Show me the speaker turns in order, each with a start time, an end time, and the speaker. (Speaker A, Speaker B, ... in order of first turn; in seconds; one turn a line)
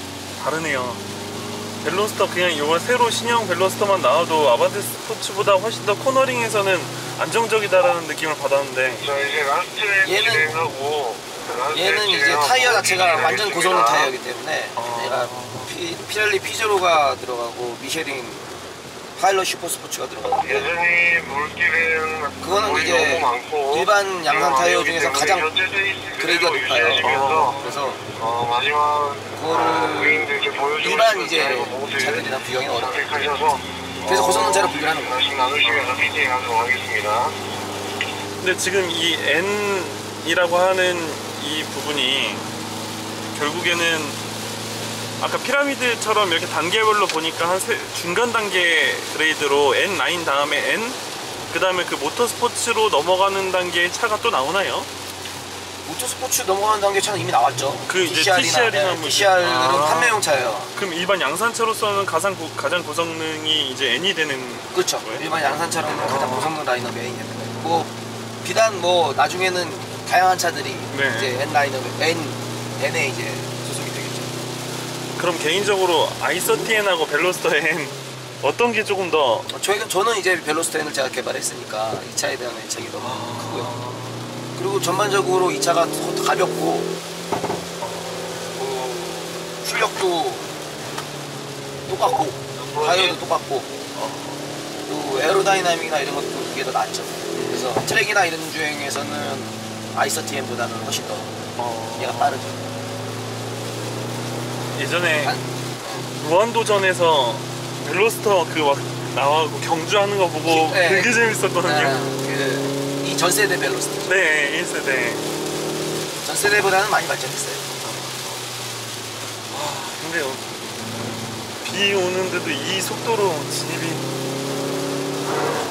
Speaker A: 0.4-1.0
Speaker B: 1.3-1.8
Speaker A: 1.8-9.1
Speaker C: 9.0-14.1
Speaker B: 10.0-10.5
Speaker B: 11.7-18.5
Speaker A: 14.8-15.7
Speaker B: 19.1-20.7
Speaker C: 20.4-33.8
Speaker B: 22.4-25.5
Speaker B: 26.2-28.0
Speaker A: 27.0-27.7
Speaker B: 29.3-33.2
Speaker A: 34.0-34.7
Speaker B: 34.0-35.2
Speaker C: 34.6-37.4
Speaker A: 35.6-36.0
Speaker A: 38.4-42.5
Speaker A: 43.3-44.2
Speaker A: 45.2-54.9
Speaker B: 55.8-60.7
Speaker A: 57.9-65.3
Speaker B: 64.7-67.9
Speaker A: 66.0-66.5
Speaker B: 68.4-74.5
Speaker A: 70.9-71.3
Speaker A: 75.2-79.5
Speaker B: 79.5-83.8
Speaker A: 83.0-84.4
Speaker B: 84.5-86.9
Speaker A: 87.8-88.5
Speaker B: 88.5-90.5
Speaker B: 91.9-93.7
Speaker C: 92.5-93.2
Speaker A: 93.9-94.5
Speaker B: 94.8-101.3
Speaker A: 97.3-97.8
Speaker A: 101.6-102.4
Speaker B: 102.0-102.7
Speaker A: 104.7-105.4
Speaker B: 105.2-106.1
Speaker A: 106.1-112.0
Speaker B: 110.5-114.2
Speaker A: 114.0-115.3
Speaker B: 116.2-117.7
Speaker A: 117.8-118.5
Speaker A: 119.5-120.7
Speaker A: 121.6-124.0